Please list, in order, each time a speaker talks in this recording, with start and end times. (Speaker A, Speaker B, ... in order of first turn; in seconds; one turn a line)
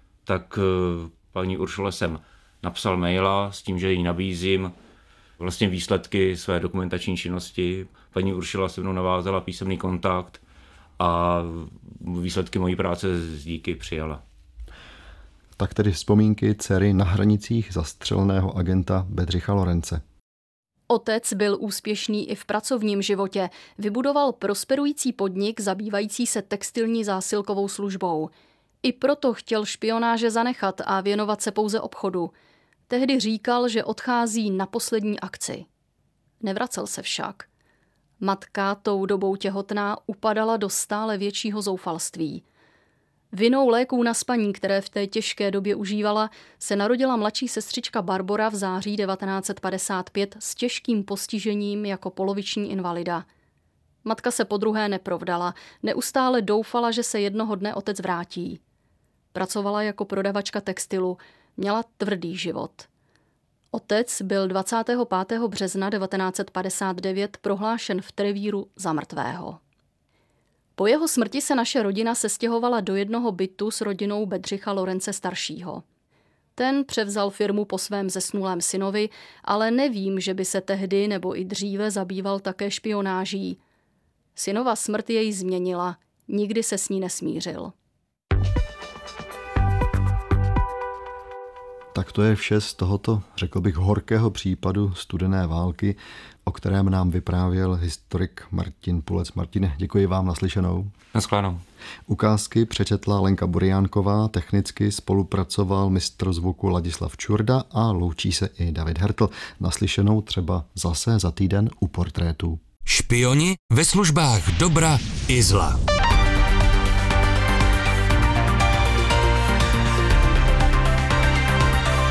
Speaker A: 0.2-4.7
Speaker A: 5.4-10.4
Speaker A: 11.0-14.2
Speaker B: 15.6-20.0
Speaker C: 20.9-28.3
Speaker C: 28.8-32.3
Speaker C: 32.9-35.6
Speaker C: 36.4-37.5
Speaker C: 38.2-42.4
Speaker C: 43.3-53.2
Speaker C: 54.0-58.6
Speaker C: 59.3-62.9
Speaker C: 63.7-69.6
Speaker C: 70.8-75.8
Speaker C: 76.6-83.6
Speaker C: 84.3-87.7
Speaker B: 91.9-100.9
Speaker A: 101.1-101.6
Speaker B: 102.1-112.6
Speaker D: 112.8-115.8